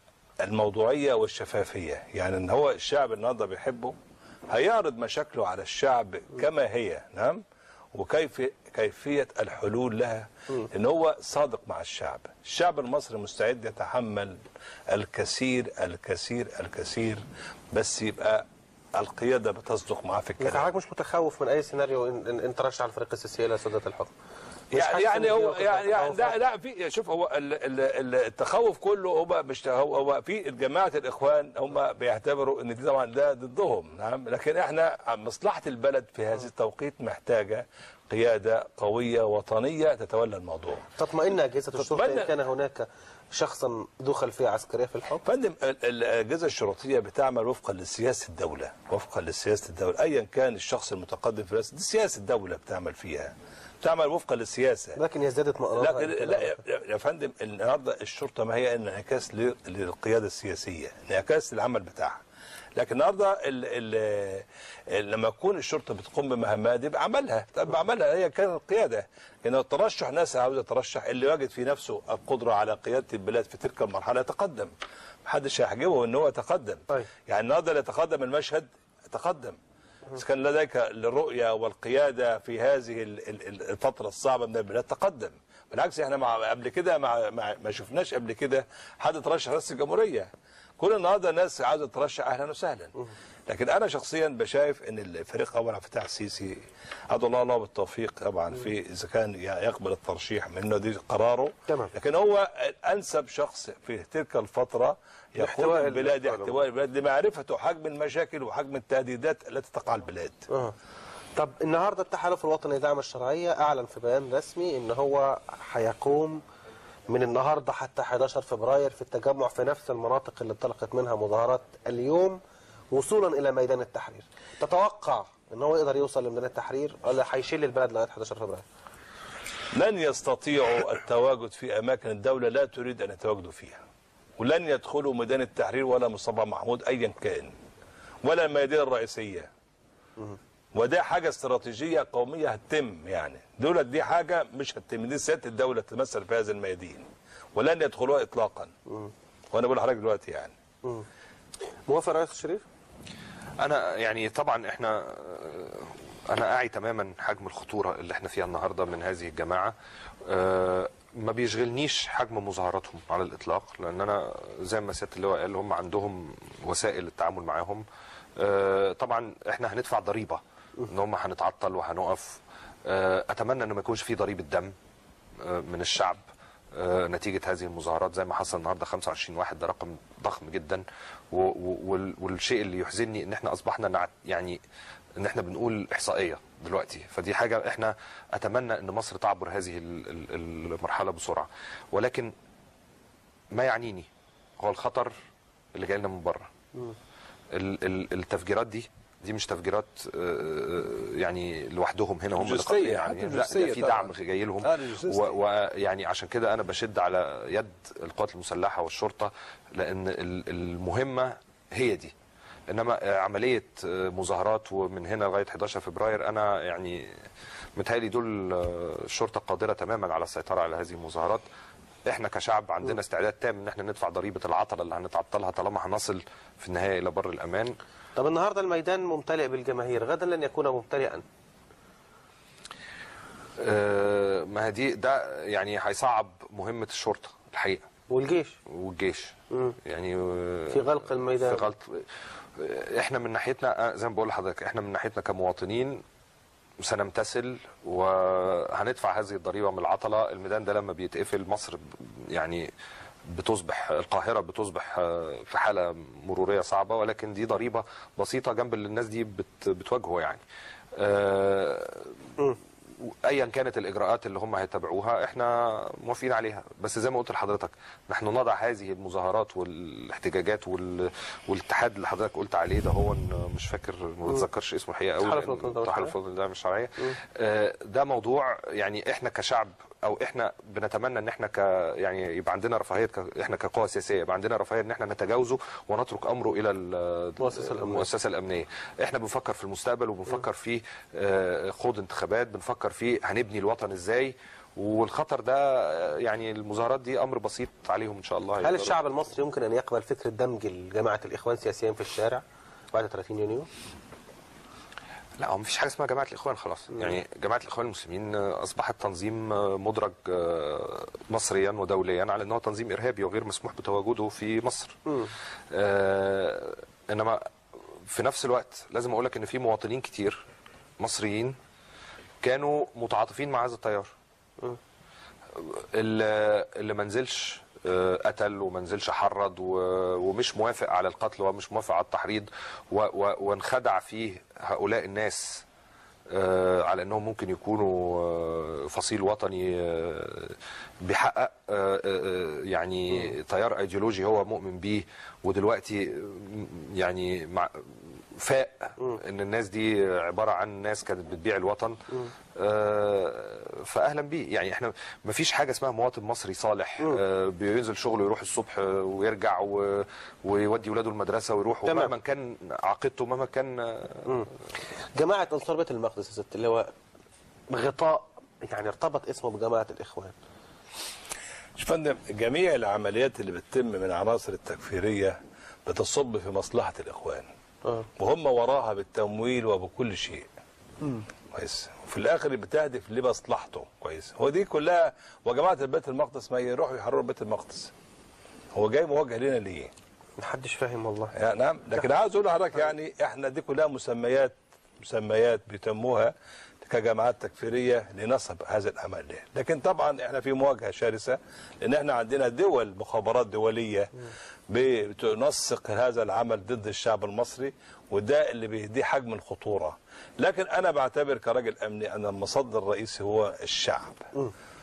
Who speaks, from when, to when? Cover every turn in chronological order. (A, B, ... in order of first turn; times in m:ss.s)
0:00.4-0:04.0 A
0:04.5-0:07.4 A
0:07.9-0:18.4 A
0:19.0-0:20.7 A
0:20.4-0:24.1 B
0:24.7-0:40.8 A
0:24.7-0:26.3 B
0:41.0-0:45.2 B
0:41.8-0:42.3 A
0:45.2-0:55.0 A
0:55.0-0:56.6 B
0:55.8-1:02.2 A
1:02.8-1:14.7 A
1:15.2-1:19.6 A
1:20.1-1:32.9 A
1:33.5-1:50.4 A
1:41.7-1:41.9 B
1:45.4-1:46.5 B
1:50.5-1:50.7 B
1:51.3-1:56.4 B
1:57.1-2:02.4 B
2:02.9-2:08.6 B
2:09.7-2:13.8 A
2:14.4-2:17.5 A
2:18.2-2:19.5 A
2:20.7-2:28.7 A
2:29.5-2:30.5 A
2:31.9-2:32.6 B
2:33.6-2:39.7 C
2:40.2-2:47.8 C
2:48.4-2:54.7 C
2:55.4-2:56.2 C
2:56.7-3:04.6 C
3:05.2-3:12.3 C
3:13.5-3:14.1 C
3:14.6-3:15.1 C
3:15.7-3:16.5 C
3:17.5-3:32.1 C
3:22.4-3:25.4 A
3:32.7-3:37.2 C
3:37.8-3:41.4 C
3:42.0-3:47.7 C
3:48.2-3:51.2 B
3:53.6-3:57.8 C
3:58.1-3:58.6 B
3:58.7-4:06.0 C
3:59.5-3:59.8 B
4:00.7-4:01.6 B
4:06.8-4:12.7 C
4:13.3-4:20.4 C
4:21.0-4:22.2 C
4:23.0-4:58.9 C
4:35.2-4:36.1 B
4:47.4-4:48.1 B
4:58.6-5:03.7 B
5:05.4-5:15.0 C
5:15.0-5:15.3 B
5:15.7-5:17.5 C
5:18.0-5:20.4 C
5:21.0-5:21.6 C
5:22.4-5:24.1 C
5:25.5-5:35.6 C
5:36.3-5:52.0 C
5:52.5-6:04.3 C
6:01.8-6:02.1 B
6:05.2-6:06.9 B
6:07.7-6:10.3 B
6:11.8-6:17.5 A
6:18.2-6:20.5 A
6:21.5-6:27.9 A
6:28.7-6:29.9 A
6:30.4-6:31.3 B
6:31.3-6:54.2 A